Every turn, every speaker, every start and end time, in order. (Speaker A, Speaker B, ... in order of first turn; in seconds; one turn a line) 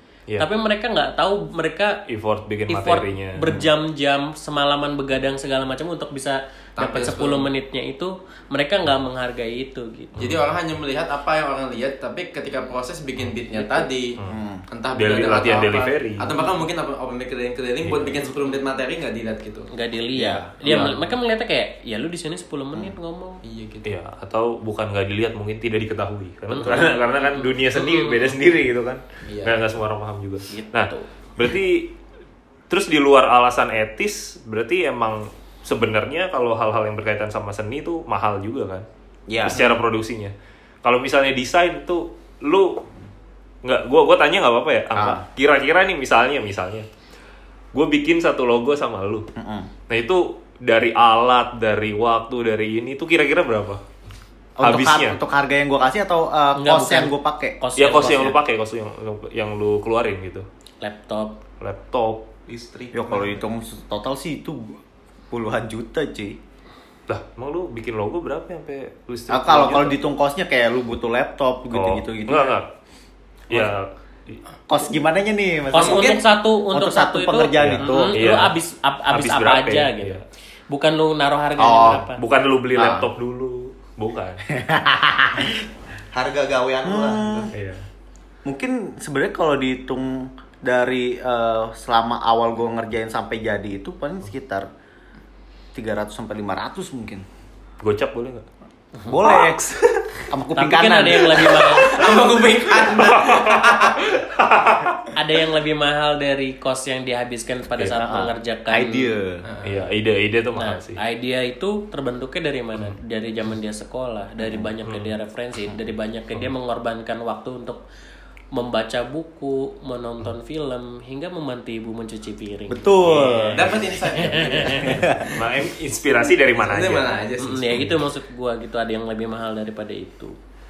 Speaker A: 0.4-2.0
Speaker B: 2.1-3.6
Speaker A: 2.7-10.2
Speaker C: 6.8-7.5
Speaker B: 10.2-10.5
Speaker C: 10.2-14.2
Speaker A: 13.5-13.9
Speaker D: 14.3-14.6
Speaker C: 14.7-19.7
Speaker B: 14.9-16.4
Speaker B: 17.8-18.2
Speaker A: 19.7-23.4
Speaker D: 20.1-20.5
Speaker B: 20.6-21.1
Speaker C: 23.4-23.9
Speaker B: 23.8-31.9
Speaker A: 26.5-28.3
Speaker C: 29.2-29.6
Speaker A: 30.5-31.1
Speaker B: 32.7-38.9
Speaker D: 39.3-39.7
Speaker B: 39.4-40.3
Speaker B: 40.8-42.8
Speaker B: 43.6-46.9
Speaker D: 44.9-45.2
Speaker B: 47.7-49.2
Speaker D: 49.4-49.7
Speaker B: 49.9-53.8
Speaker D: 54.6-57.6
Speaker B: 54.6-55.2
Speaker A: 56.6-58.4
Speaker B: 57.8-60.5
Speaker A: 60.8-61.4
Speaker B: 61.6-62.3
Speaker E: 62.5-63.4
Speaker D: 62.9-64.8
Speaker D: 65.3-66.4
Speaker B: 67.1-70.0
Speaker D: 69.3-72.5
Speaker B: 71.7-72.7
Speaker B: 73.5-74.4
Speaker D: 74.7-78.1
Speaker C: 75.7-76.2
Speaker A: 75.7-80.2
Speaker B: 77.6-78.5
Speaker B: 79.1-80.2
Speaker A: 80.7-82.2
Speaker D: 81.6-82.0
Speaker B: 81.8-84.4
Speaker D: 82.8-83.1
Speaker D: 84.5-85.6
Speaker E: 86.1-87.5
Speaker D: 86.8-87.5
Speaker B: 87.5-87.8
Speaker D: 88.4-94.7
Speaker D: 95.7-97.2
Speaker B: 97.8-98.5
Speaker D: 99.0-102.1
Speaker A: 100.5-102.1
Speaker C: 101.4-104.0
Speaker B: 102.9-105.1
Speaker A: 105.1-109.1
Speaker D: 107.9-109.4
Speaker C: 109.4-109.8
Speaker B: 109.6-111.0
Speaker A: 110.5-117.8
Speaker D: 114.4-114.7
Speaker B: 114.8-115.1
Speaker A: 118.5-125.0
Speaker D: 122.7-123.8
Speaker C: 123.5-125.0
Speaker D: 124.8-125.4
Speaker B: 125.3-127.1
Speaker C: 126.5-127.9
Speaker A: 127.4-130.3
Speaker B: 127.7-127.9